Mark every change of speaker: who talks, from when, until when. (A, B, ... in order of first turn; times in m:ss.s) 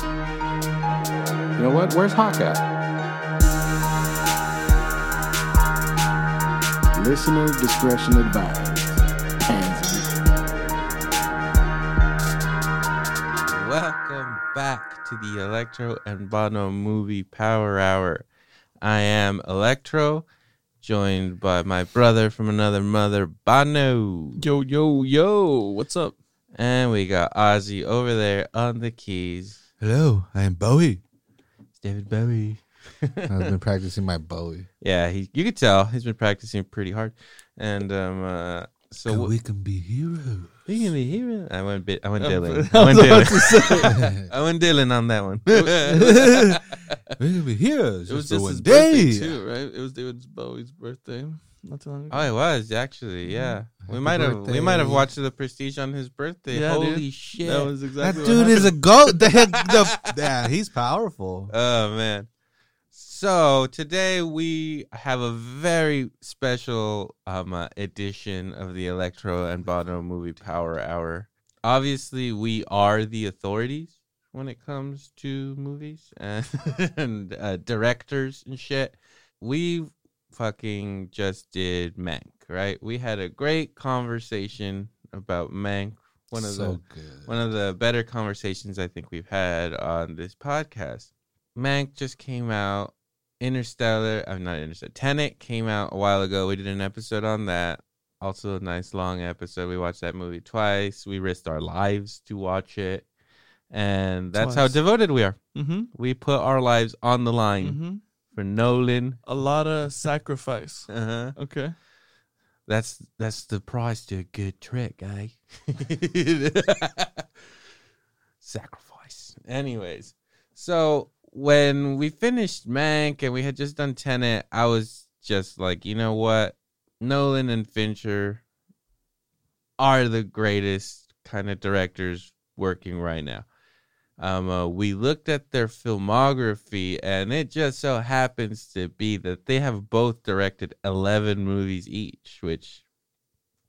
0:01.6-0:02.6 A
0:06.9-0:10.2 A
0:13.4-0:18.2 B
0:18.8-0:20.2 B
0:20.8-0:24.4 B
0:24.4-0:26.1 C
0:26.5-0:29.6 B
0:29.8-0:31.0 D
0:31.8-0:33.5 B
0:33.3-0:34.7 D
0:34.8-0:39.3 B
0:39.0-0:40.6 D
0:40.7-0:46.9 B
0:42.2-0:43.9 C
0:43.9-0:44.3 D
0:45.6-0:46.6 D
0:47.2-0:49.3 D
0:48.1-0:52.3 C
0:52.1-0:58.7 B
0:53.3-0:53.6 C
0:53.9-0:55.1 D
0:56.5-0:58.7 C
0:58.0-1:01.5 D
0:59.5-1:00.1 B
1:01.5-1:02.3 B
1:02.9-1:43.1 B
1:26.4-1:27.4 D
1:43.7-1:45.4 B
1:44.3-1:44.8 C
1:45.5-1:45.9 C
1:45.9-1:47.8 B
1:47.6-1:48.0 C
1:48.3-1:49.2 B
1:49.2-1:51.7 C
1:50.9-1:51.4 B
1:52.7-1:57.3 B
1:58.4-2:08.4 B
2:09.8-2:13.4 B
2:14.2-2:22.8 B